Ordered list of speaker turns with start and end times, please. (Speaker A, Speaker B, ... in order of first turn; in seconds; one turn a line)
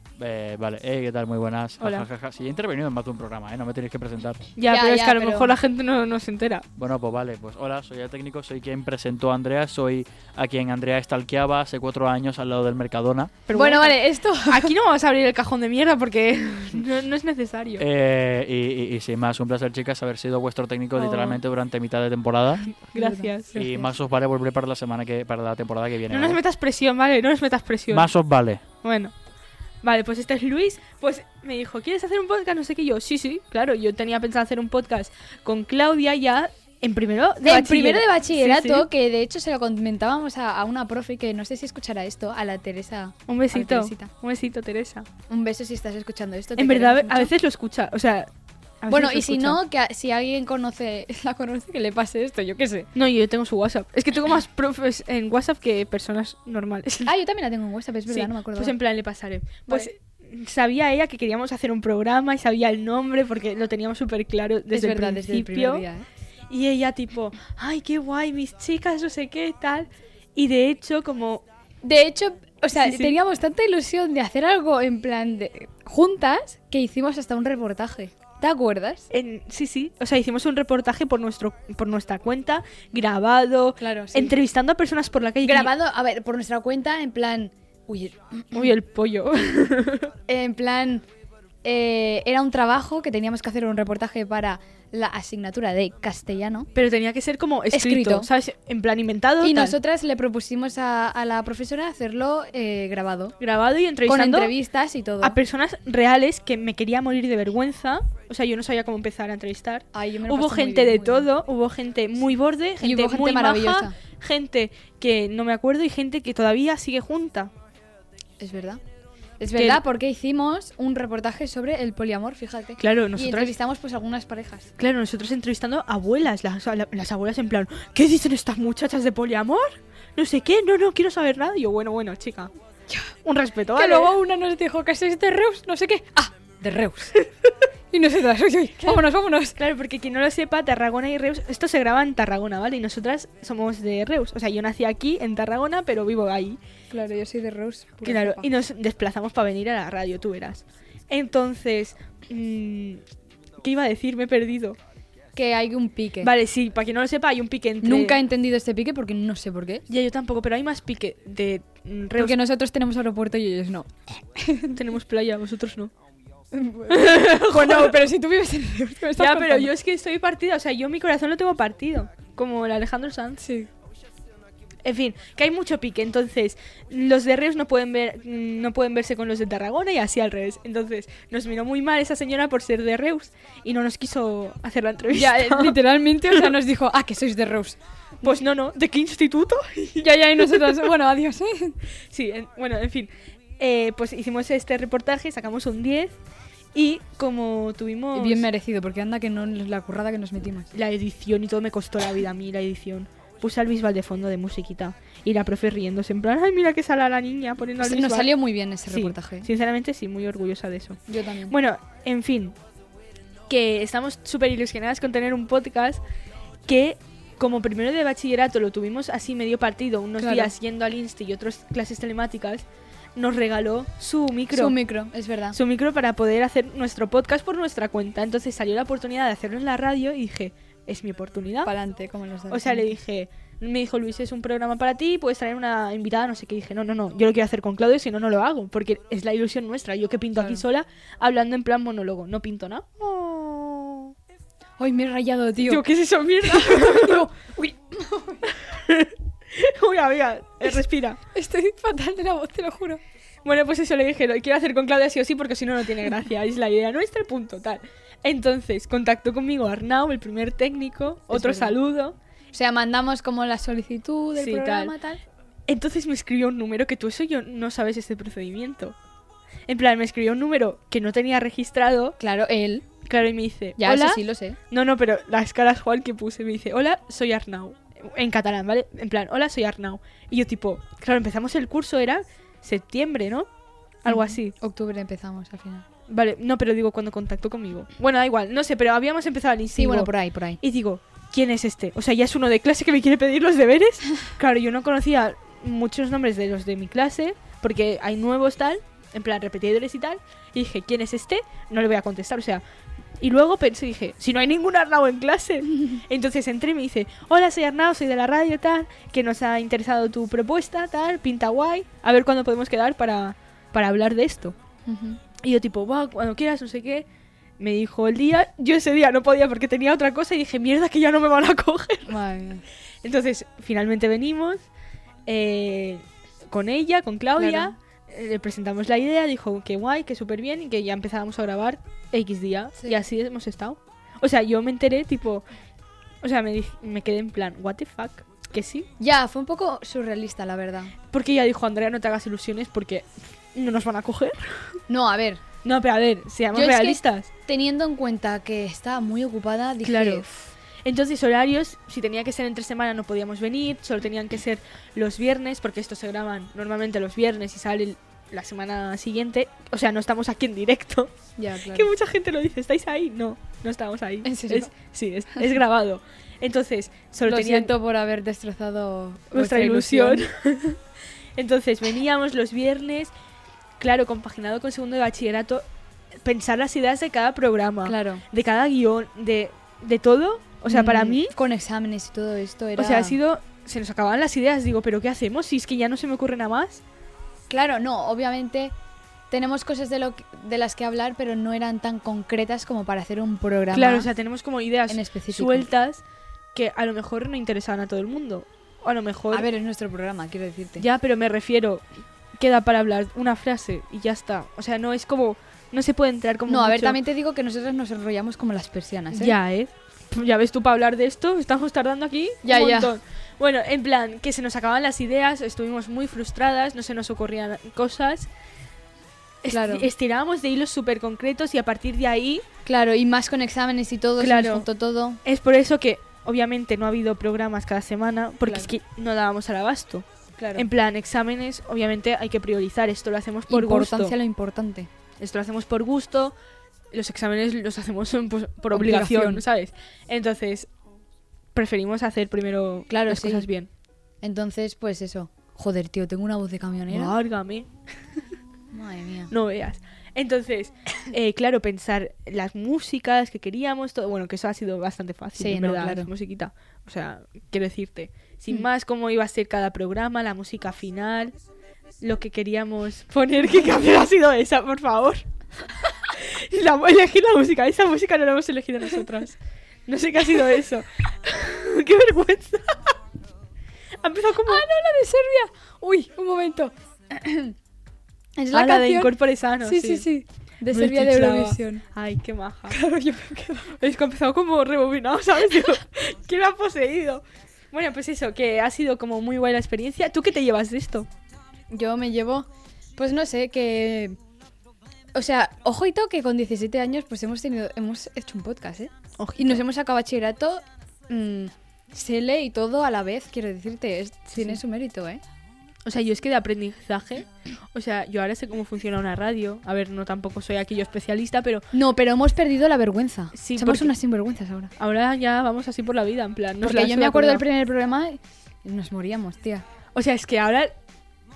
Speaker A: 0.2-4.4
Speaker B: 1.8-2.1
Speaker B: 4.6-6.7
Speaker C: 4.7-5.5
Speaker A: 6.8-13.4
Speaker B: 13.5-17.8
Speaker C: 13.6-14.7
Speaker A: 17.8-22.8
Speaker B: 20.9-21.4
Speaker B: 22.7-23.6
Speaker C: 22.9-23.9
Speaker A: 23.5-26.4
Speaker B: 26.1-28.1
Speaker A: 27.9-28.6
Speaker B: 28.8-29.1
Speaker B: 29.8-38.9
Speaker C: 37.4-44.1
Speaker B: 43.3-45.1
Speaker C: 45.3-47.3
Speaker B: 46.6-49.6
Speaker C: 48.9-52.9
Speaker B: 53.0-57.1
Speaker C: 57.0-58.8
Speaker B: 58.1-65.8
Speaker C: 64.7-66.1
Speaker B: 66.5-71.5
Speaker C: 71.8-79.1
Speaker B: 72.8-73.2
Speaker B: 79.1-85.7
Speaker C: 83.8-84.4
Speaker C: 85.4-88.7
Speaker B: 88.5-90.1
Speaker C: 90.3-91.0
Speaker C: 91.6-96.7
Speaker B: 96.8-99.8
Speaker C: 97.7-98.3
Speaker C: 99.4-103.4
Speaker B: 103.4-104.5
Speaker C: 104.1-105.4
Speaker B: 105.2-117.5
Speaker C: 109.9-111.3
Speaker C: 112.8-113.9
Speaker C: 118.4-118.8
Speaker C: 119.4-124.7
Speaker B: 119.5-119.8
Speaker B: 122.8-123.5
Speaker B: 124.8-132.5
Speaker B: 133.2-134.2
Speaker C: 133.8-137.2
Speaker C: 137.9-139.6
Speaker B: 139.6-146.6
Speaker C: 146.9-148.5
Speaker B: 148.0-153.0
Speaker B: 153.6-154.8
Speaker C: 155.4-156.3
Speaker B: 156.2-158.2
Speaker C: 157.8-159.8
Speaker B: 159.9-162.4
Speaker C: 162.2-164.8
Speaker B: 164.8-165.9
Speaker C: 166.5-169.7
Speaker B: 166.9-168.0
Speaker B: 169.2-173.4
Speaker C: 173.4-173.7
Speaker B: 174.8-186.5
Speaker C: 185.1-188.4
Speaker B: 188.2-190.9
Speaker C: 190.0-191.8
Speaker B: 192.1-196.2
Speaker B: 196.7-198.5
Speaker C: 198.1-200.7
Speaker B: 200.7-208.3
Speaker C: 207.8-209.5
Speaker B: 208.9-212.6
Speaker C: 211.1-211.6
Speaker B: 213.5-216.0
Speaker B: 216.7-224.8
Speaker C: 220.2-220.5
Speaker C: 224.5-225.6
Speaker B: 225.5-231.7
Speaker C: 231.6-233.0
Speaker B: 232.5-244.1
Speaker C: 244.8-245.8
Speaker B: 245.6-247.3
Speaker C: 246.4-248.5
Speaker B: 248.5-251.2
Speaker C: 251.3-253.0
Speaker B: 253.4-262.2
Speaker C: 261.3-261.8
Speaker C: 262.5-265.2
Speaker B: 264.4-264.9
Speaker B: 265.7-269.0
Speaker B: 269.7-272.2
Speaker C: 272.2-272.9
Speaker B: 273.1-283.5
Speaker C: 273.8-274.6
Speaker B: 284.0-284.6
Speaker C: 284.1-285.9
Speaker B: 286.1-302.6
Speaker C: 289.7-290.6
Speaker B: 303.2-314.6
Speaker C: 314.9-315.2
Speaker B: 315.4-317.1
Speaker B: 317.6-322.2
Speaker C: 322.1-322.6
Speaker B: 323.0-324.7
Speaker B: 325.3-335.4
Speaker C: 327.4-327.7
Speaker B: 336.2-338.9
Speaker C: 339.0-340.9
Speaker B: 341.1-344.8
Speaker C: 344.9-345.4
Speaker B: 345.6-347.3
Speaker C: 346.5-350.3
Speaker B: 349.8-350.3
Speaker B: 350.8-361.1
Speaker C: 361.4-361.9
Speaker B: 361.7-367.7
Speaker C: 364.2-364.7
Speaker C: 367.3-370.3
Speaker B: 369.3-370.8
Speaker B: 371.4-373.1
Speaker B: 373.8-381.4
Speaker C: 377.9-378.2
Speaker C: 380.7-383.2
Speaker B: 382.8-386.8
Speaker C: 387.5-388.7
Speaker C: 389.3-394.1
Speaker B: 393.7-396.0
Speaker C: 394.9-395.7
Speaker B: 396.5-399.5
Speaker C: 399.3-400.9
Speaker B: 400.8-407.0
Speaker C: 406.5-409.4
Speaker B: 409.1-418.3
Speaker C: 412.4-412.9
Speaker B: 419.4-422.4
Speaker C: 419.5-419.9
Speaker C: 422.7-425.2
Speaker B: 424.2-424.7
Speaker B: 425.2-434.1
Speaker C: 428.4-428.7
Speaker C: 430.4-430.6
Speaker C: 433.5-434.9
Speaker B: 435.2-436.4
Speaker B: 436.9-440.7
Speaker C: 438.7-439.4
Speaker B: 441.5-443.7
Speaker C: 442.9-443.5
Speaker C: 444.2-447.1
Speaker B: 446.9-448.2
Speaker C: 448.7-449.3
Speaker B: 449.3-461.4
Speaker C: 455.4-456.1
Speaker B: 462.0-465.3
Speaker B: 466.1-469.4
Speaker B: 469.9-473.0
Speaker B: 474.0-474.6
Speaker C: 474.5-477.6
Speaker C: 478.4-481.8
Speaker B: 478.5-480.1
Speaker B: 480.7-482.8
Speaker C: 482.7-483.8
Speaker B: 483.8-491.1
Speaker C: 491.7-494.2
Speaker C: 495.1-505.2
Speaker B: 499.2-499.6
Speaker B: 504.3-504.6
Speaker B: 505.9-511.7
Speaker C: 511.7-514.7
Speaker B: 513.3-513.9
Speaker B: 514.8-517.4
Speaker C: 516.6-519.6
Speaker B: 519.9-520.8